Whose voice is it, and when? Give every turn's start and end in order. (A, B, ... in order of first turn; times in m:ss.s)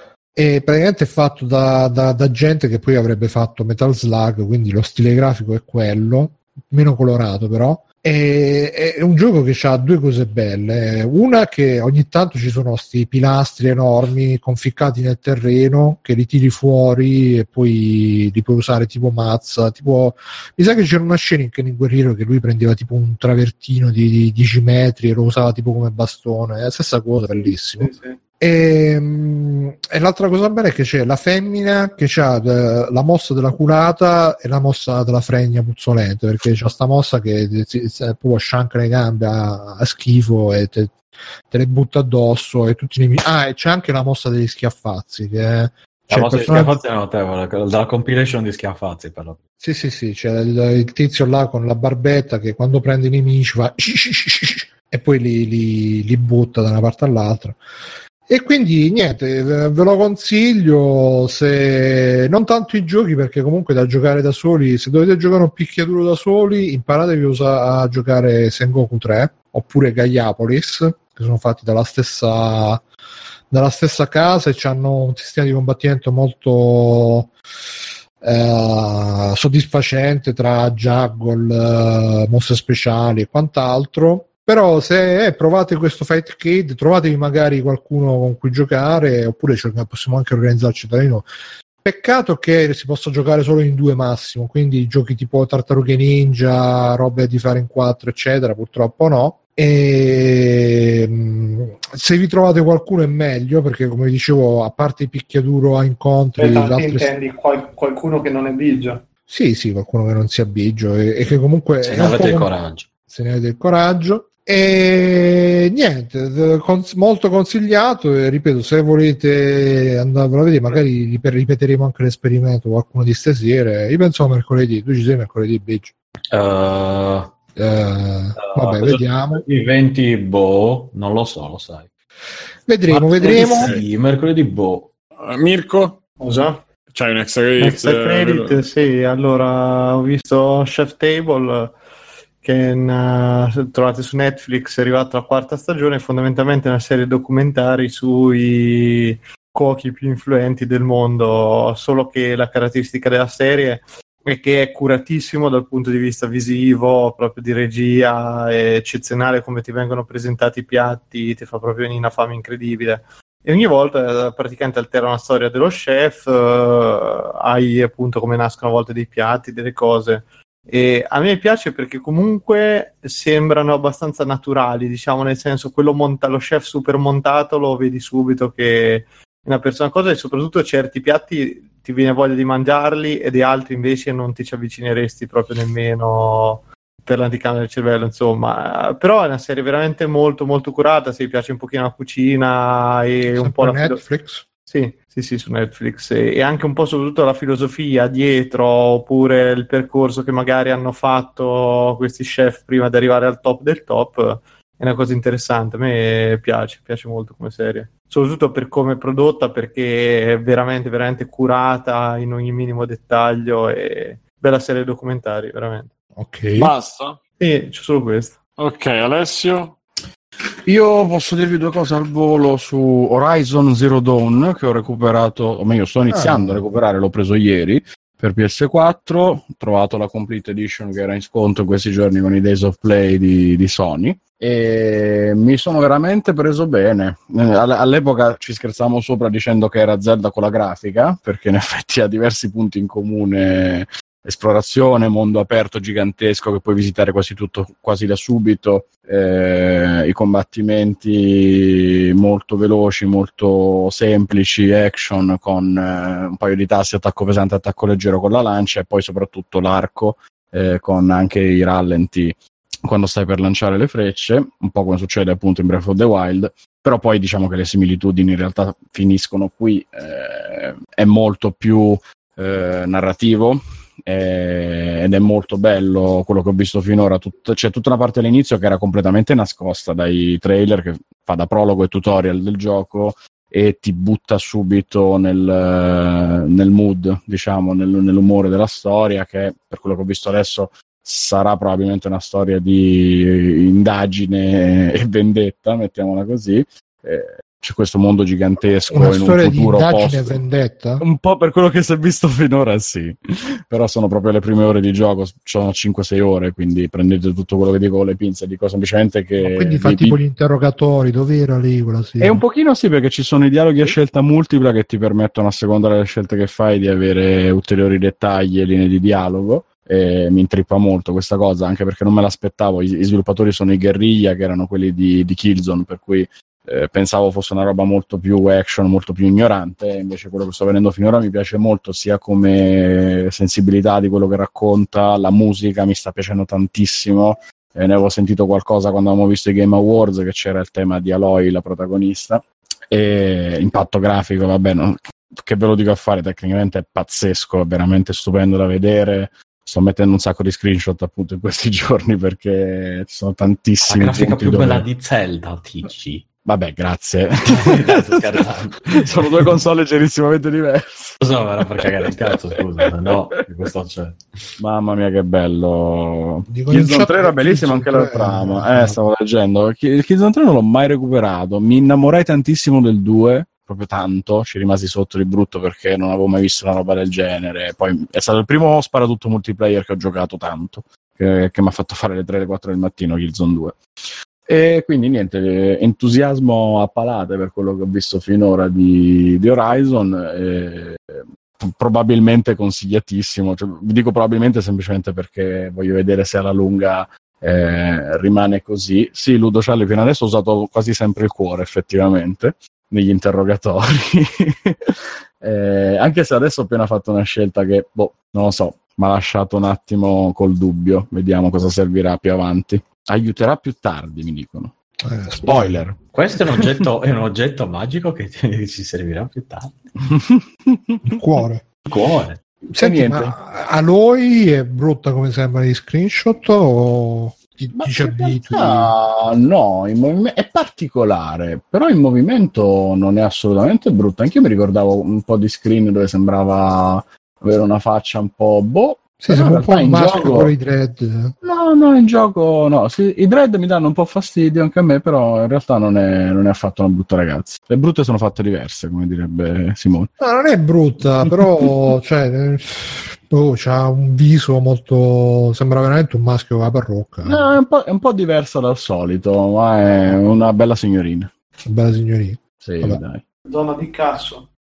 0:00.4-0:46.7 A
0:27.4-0:28.2 B
0:46.1-0:49.4 C
0:49.6-0:57.6 A
0:58.3-1:12.8 A
1:13.5-1:17.3 A
1:18.2-1:31.3 A
1:31.8-1:47.1 A
1:46.4-1:49.0 B
1:49.3-1:52.5 A
1:51.8-1:52.9 C
1:53.1-2:05.9 A
2:06.3-2:07.3 C
2:07.6-2:09.4 A
2:08.4-2:11.9 C
2:12.7-2:13.7 A
2:12.9-2:14.9 C
2:13.3-2:13.8 D
2:15.2-2:16.0 D
2:16.2-2:16.6 B
2:16.9-2:18.6 D
2:17.6-2:21.8 B
2:22.4-3:14.0 B
3:13.3-3:14.5 A
3:14.7-3:35.9 B
3:36.2-3:36.7 A
3:36.6-3:37.2 D
3:37.4-3:38.4 B
3:38.6-3:39.8 D
3:40.7-5:00.4 E
3:46.1-3:46.6 A
4:58.9-5:01.0 A
5:01.0-5:03.2 E
5:03.7-5:10.2 E
5:09.4-5:12.4 A
5:12.2-5:54.9 E
5:53.8-5:56.2 C
5:56.4-6:01.2 E
5:57.5-5:59.5 C
6:01.2-6:04.3 C
6:01.8-6:02.2 E
6:04.6-6:23.8 E
6:06.5-6:09.0 A
6:24.5-6:54.7 E
6:55.0-6:56.0 A
6:55.4-6:55.9 E
6:56.1-6:59.9 C
7:00.1-7:01.1 E
7:01.1-7:01.7 A
7:01.9-7:02.4 C
7:02.7-7:03.4 E
7:02.8-7:08.9 A
7:07.7-7:20.5 E
7:19.2-7:21.4 A
7:21.4-7:30.1 E
7:30.2-7:37.5 A
7:37.2-7:41.3 E
7:41.7-7:43.0 A
7:42.6-7:43.2 E
7:43.5-7:44.5 B